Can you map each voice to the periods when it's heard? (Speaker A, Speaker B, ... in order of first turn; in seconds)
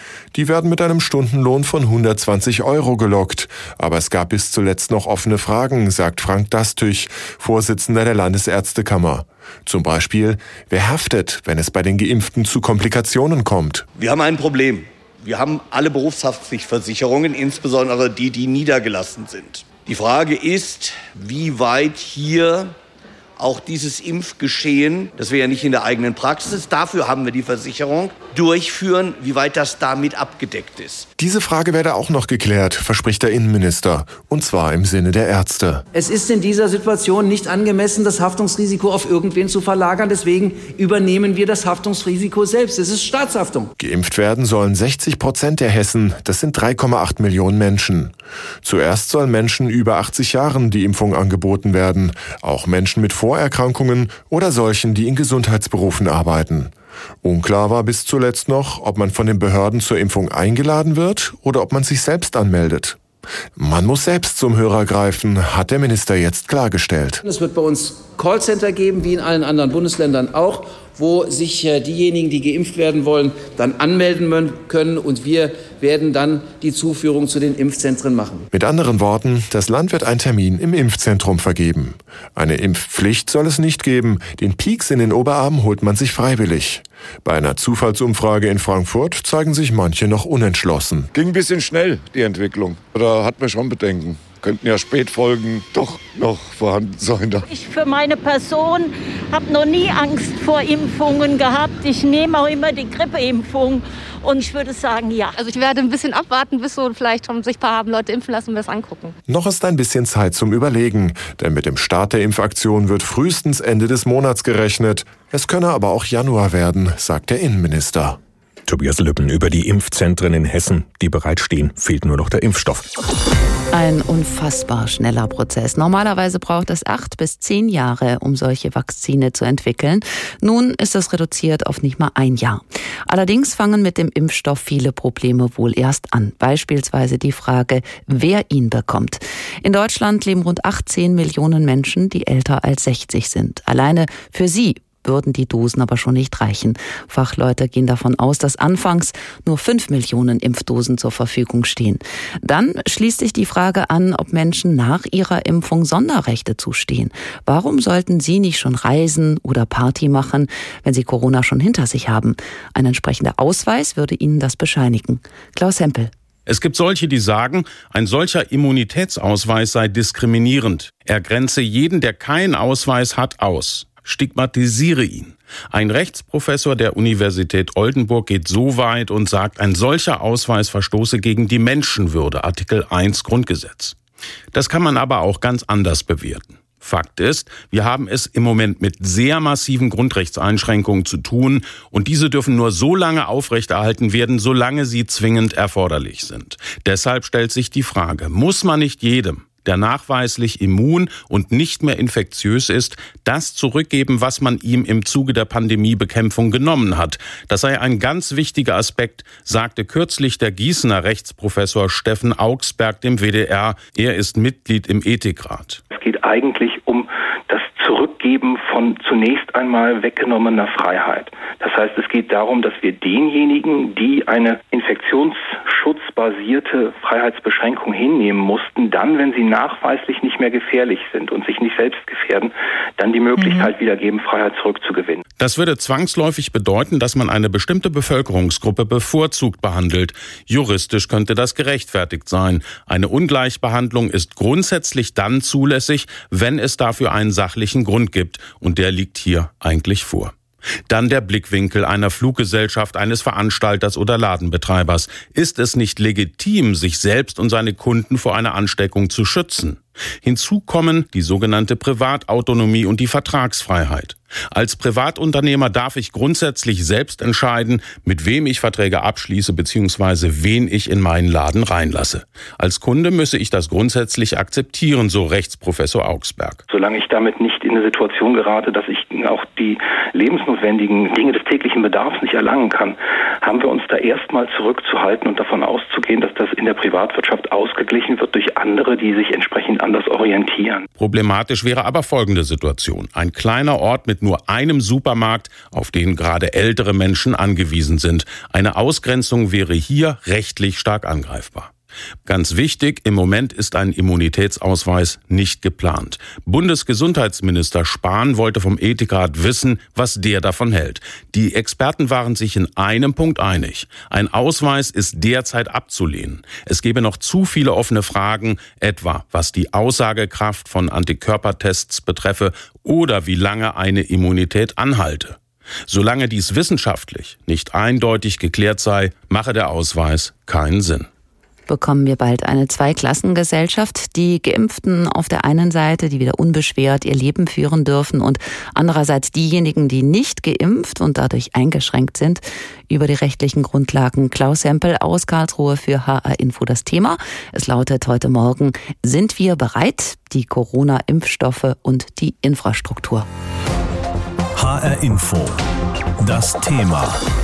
Speaker A: 0.3-13.9, 31.2-35.8, 43.8-63.0, 63.6-67.2, 78.5-91.1, 109.3-118.2
Speaker B: 13.9-22.8, 23.4-31.1
Speaker C: 35.9-43.7, 67.2-78.5
Speaker D: 91.1-97.5
Speaker E: 97.5-105.4
Speaker F: 105.4-109.2
Speaker G: 118.7-122.9
Speaker H: 123.7-166.1, 331.7-353.3
Speaker I: 166.5-184.0, 184.5-215.8, 235.4-250.3, 250.9-276.6, 291.0-301.7, 302.3-331.1
Speaker J: 215.9-235.2, 276.7-290.9
Speaker K: 354.6-355.6, 356.2-357.2